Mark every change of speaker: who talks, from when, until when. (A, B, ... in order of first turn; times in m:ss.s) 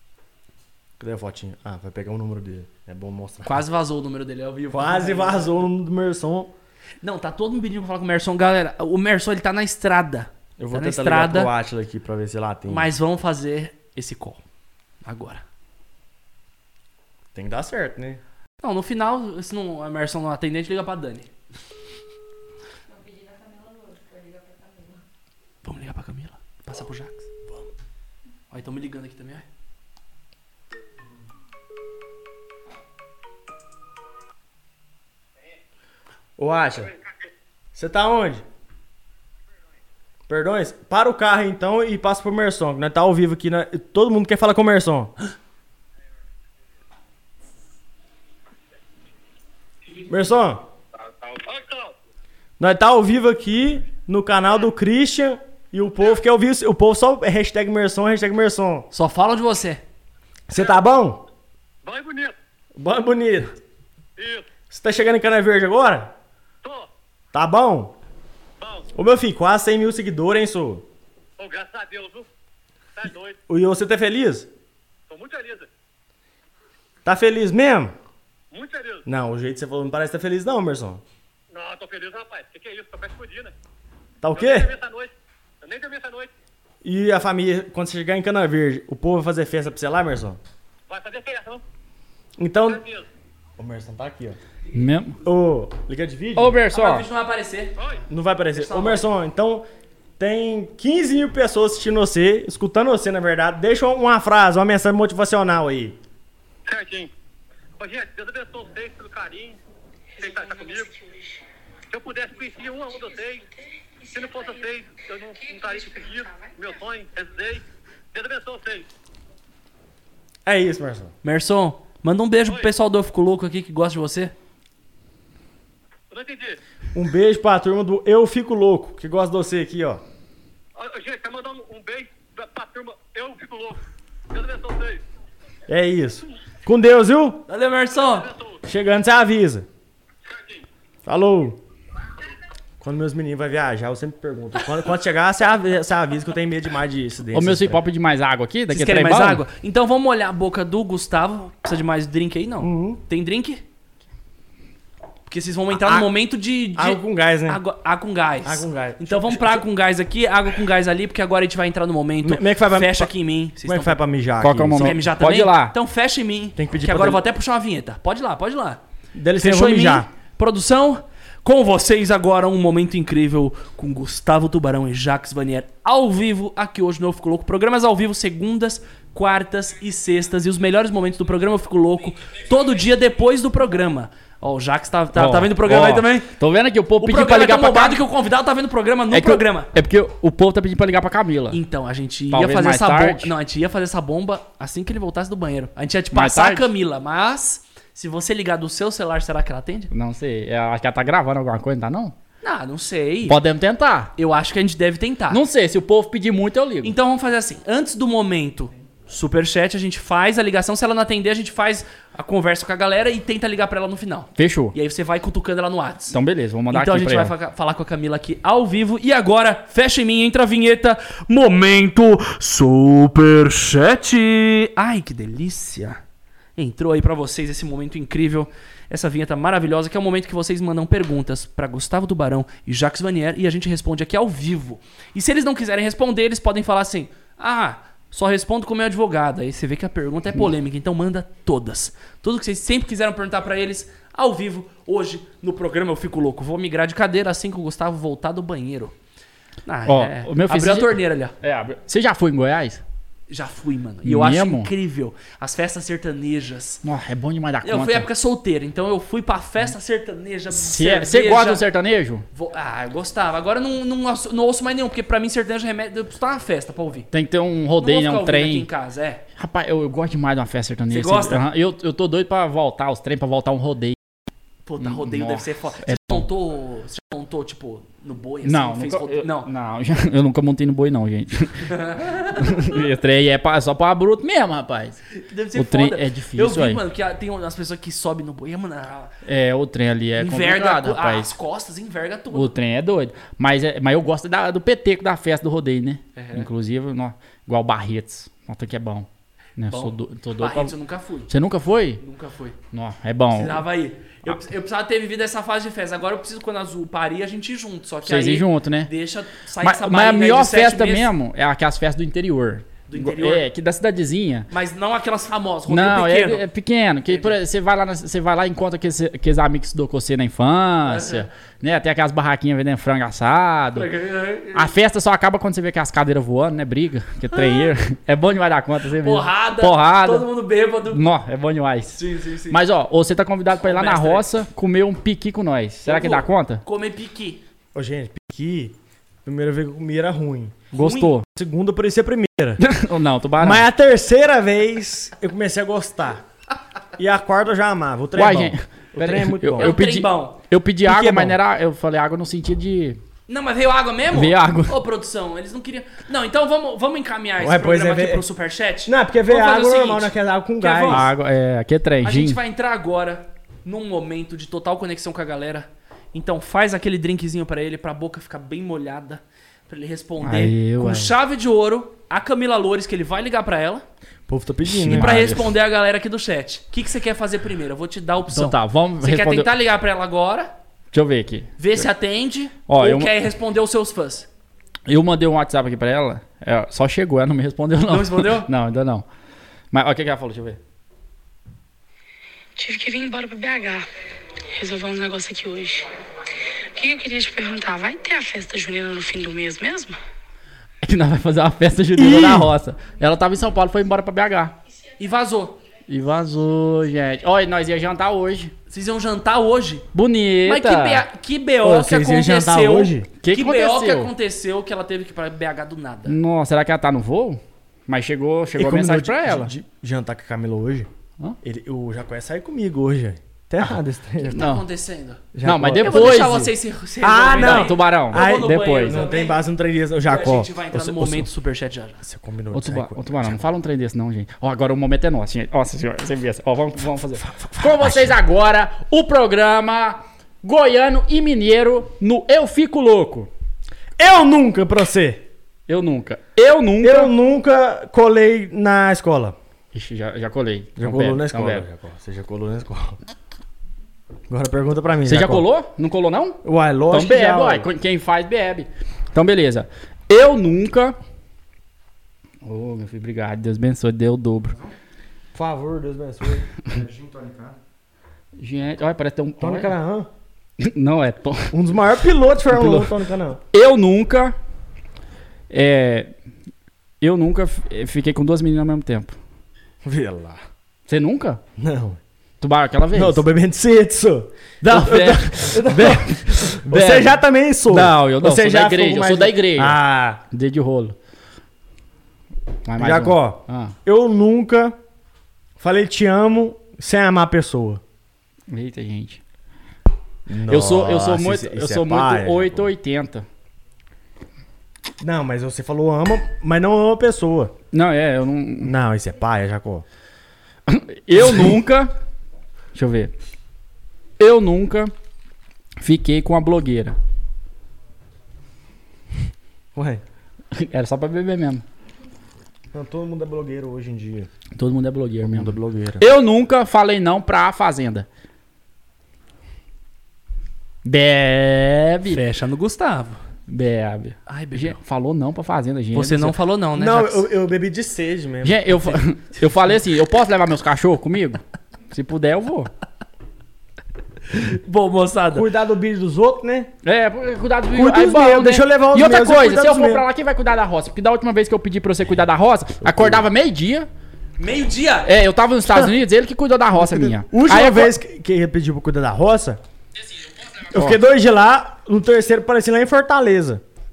0:01.0-0:03.6 A
0:03.4-0:05.6 B
0:04.7-0:06.5 A
0:07.0-0:11.5 B
0:10.6-0:12.9 A
0:12.7-0:14.4 B
0:15.0-0:15.4 B
0:17.3-0:18.2 A
0:18.6-0:21.3 B
0:22.9-0:25.0 C
0:25.6-0:27.3 B
0:28.5-0:29.4 B
0:36.4-0:36.9 A
0:37.7-0:38.4 A
0:40.3-0:45.1 A
0:50.1-0:50.7 A
0:51.0-0:51.9 D
0:52.6-0:58.9 A
0:58.9-0:59.8 B
1:00.5-1:01.2 A
1:01.8-1:02.3 D
1:02.8-1:03.5 A
1:04.2-1:04.5 D
1:04.7-1:06.1 A
1:06.6-1:06.9 D
1:07.3-1:07.9 A
1:08.6-1:08.9 D
1:08.9-1:10.8 A
1:11.4-1:12.3 D
1:13.0-1:13.4 D
1:13.5-1:14.5 A
1:15.1-1:15.7 D
1:17.0-1:17.9 A
1:18.5-1:19.0 D
1:19.0-1:21.0 A
1:21.5-1:23.5 D
1:24.2-1:24.7 A
1:24.3-1:26.3 D
1:26.8-1:30.4 A
1:30.9-1:31.6 D
1:32.4-1:32.8 A
1:32.7-1:33.0 D
1:33.6-1:34.4 A
1:34.7-1:35.2 E
1:35.2-1:36.6 A
1:36.4-1:37.0 E
1:36.7-1:37.8 B
1:38.1-1:39.7 A
1:38.5-1:39.0 B
1:40.2-1:46.0 A
1:46.6-1:47.1 D
1:47.8-1:49.6 D
1:50.2-1:51.4 C
1:50.2-1:50.9 D
1:51.9-1:53.4 D
1:52.4-1:53.4 C
1:54.0-1:54.7 C
1:54.1-1:58.9 D
1:55.4-1:56.8 C
2:00.4-2:01.1 A
2:01.2-2:04.3 B
2:06.1-2:06.6 D
2:06.9-2:10.0 A
2:10.8-2:13.8 D
2:14.3-2:15.0 D
2:15.7-2:17.4 A
2:17.5-2:18.3 B
2:18.1-2:18.6 D
2:18.6-2:19.7 A
2:20.2-2:20.6 D
2:21.0-2:21.6 A
2:22.8-2:27.8 A
2:27.3-2:29.4 E
2:28.7-2:33.6 B
2:32.6-2:33.0 A
2:35.3-2:44.0 B
2:35.7-2:36.1 A
2:36.7-2:37.6 A
2:38.4-2:39.6 A
2:42.2-2:43.1 A
2:43.6-2:45.0 A
2:44.4-2:45.7 E
2:44.8-2:48.8 B
2:46.6-2:47.2 A
2:49.1-2:50.1 A
2:49.4-3:06.3 B
3:05.1-3:08.0 E
3:07.0-3:09.7 B
3:09.1-3:11.6 E
3:11.5-3:19.9 B
3:12.3-3:13.3 E
3:16.1-3:16.7 E
3:19.9-3:22.1 E
3:22.4-3:23.4 B
3:23.3-3:24.1 E
3:24.2-3:25.4 B
3:25.3-3:26.9 E
3:26.8-3:36.2 B
3:34.4-3:34.7 E
3:36.1-3:37.3 E
3:36.7-3:46.0 B
3:46.6-4:08.9 B
4:09.6-4:11.3 B
4:09.9-4:12.8 E
4:13.3-4:16.8 B
4:14.0-4:14.7 E
4:16.8-4:18.1 E
4:17.6-4:21.7 B
4:20.5-4:22.2 E
4:22.3-4:27.1 B
4:27.1-4:28.7 E
4:27.8-4:29.2 B
4:29.4-4:34.0 E
4:30.9-4:31.4 B
4:34.6-4:39.5 B
4:34.8-4:36.3 E
4:38.4-4:45.0 E
4:41.7-4:42.7 B
4:45.1-4:49.1 B
4:45.5-4:46.8 E
4:49.2-4:51.3 E
4:50.2-4:52.5 B
4:52.3-4:59.1 E
4:56.2-4:56.5 B
4:59.6-5:00.7 E
4:59.7-5:01.3 B
5:01.3-5:02.0 E
5:02.0-5:02.6 B
5:02.7-5:03.6 E
5:03.3-5:11.1 B
5:08.0-5:08.9 E
5:09.6-5:14.5 E
5:12.9-5:13.4 B
5:14.5-5:16.4 B
5:15.7-5:23.9 E
5:17.1-5:17.3 B
5:20.9-5:21.3 B
5:23.8-5:24.7 B
5:24.5-5:30.3 E
5:27.4-5:27.7 B
5:29.0-5:31.0 B
5:30.9-5:36.6 E
5:32.0-5:32.6 B
5:33.6-5:34.2 B
5:35.8-5:37.4 B
5:37.7-5:40.6 A
5:40.7-5:41.2 E
5:40.7-5:41.2 B
5:41.3-5:42.6 A
5:42.6-5:43.6 E
5:43.4-5:46.2 A
5:47.0-5:49.7 A
5:48.2-5:53.0 E
5:49.6-5:50.4 B
5:50.8-5:51.4 A
5:53.3-6:01.1 B
5:54.1-5:54.7 E
5:57.4-5:58.2 A
5:58.8-6:01.0 A
6:00.9-6:02.4 E
6:02.0-6:13.8 B
6:10.2-6:11.1 E
6:14.3-6:15.3 A
6:14.8-6:15.5 E
6:14.8-6:20.5 B
6:18.3-6:19.5 E
6:20.9-6:21.8 E
6:21.6-6:24.3 B
6:22.7-6:23.1 E
6:24.9-6:29.0 E
6:27.9-6:28.5 B
6:29.7-6:30.6 E
6:32.6-6:33.8 C
6:34.5-6:35.9 C
6:36.7-6:40.0 C
6:40.8-6:44.6 E
6:42.0-6:42.5 A
6:45.0-6:45.6 B
6:45.9-6:48.5 E
6:48.7-6:49.9 B
6:49.9-6:51.0 E
6:50.4-6:56.2 B
6:51.6-6:53.1 A
6:53.2-6:54.1 E
6:56.0-6:59.5 E
6:58.6-7:00.9 A
7:01.4-7:04.5 A
7:04.2-7:05.3 B
7:04.3-7:04.6 E
7:05.3-7:06.4 A
7:05.4-7:06.5 E
7:05.8-7:09.4 B
7:07.0-7:11.3 A
7:07.4-7:09.0 E
7:10.0-7:12.0 B
7:12.0-7:13.4 A
7:12.5-7:23.3 E
7:17.2-7:18.1 A
7:24.0-7:25.2 A
7:25.7-7:27.1 E
7:26.8-7:29.4 A
7:29.7-7:31.6 E
7:30.8-7:33.0 A
7:34.3-7:35.5 A
7:35.0-7:41.0 E
7:36.4-7:37.7 A
7:42.4-7:44.6 E
7:45.3-7:47.5 A
7:48.4-7:49.7 E
7:49.4-7:50.1 A
7:50.6-7:51.5 E
7:51.5-7:53.4 A
7:52.5-7:52.9 E
7:53.5-7:54.3 E
7:55.5-7:56.1 E
7:57.0-7:59.2 E
7:59.8-8:00.4 A
8:00.9-8:01.4 E
8:01.6-8:02.0 A
8:02.4-8:03.2 E
8:02.9-8:10.2 A
8:04.6-8:10.9 E
8:12.6-8:13.7 E
8:12.8-8:14.8 A
8:15.6-8:17.8 A
8:18.5-8:19.2 E
8:20.3-8:22.7 A
8:20.5-8:23.2 E
8:25.0-8:27.5 A
8:27.7-8:28.7 E
8:28.6-8:29.8 A
8:30.7-8:31.9 E
8:32.7-8:33.1 E
8:34.2-8:34.9 E
8:35.8-8:37.0 E
8:39.7-8:40.0 A
8:40.5-8:41.6 E
8:42.7-8:44.3 A
8:44.6-8:48.1 E
8:45.2-8:46.1 A
8:50.8-8:52.2 E
8:52.1-8:53.2 B
8:53.5-8:56.3 E
8:54.3-8:54.8 B
8:55.9-8:57.3 B
8:56.8-8:59.0 A
8:58.4-9:02.7 E
9:04.4-9:05.4 B
9:05.3-9:06.7 A
9:06.8-9:13.9 E
9:07.7-9:10.0 A
9:12.9-9:13.2 A
9:14.4-9:15.1 B
9:15.0-9:18.0 E
9:16.8-9:19.6 A
9:20.7-9:23.6 A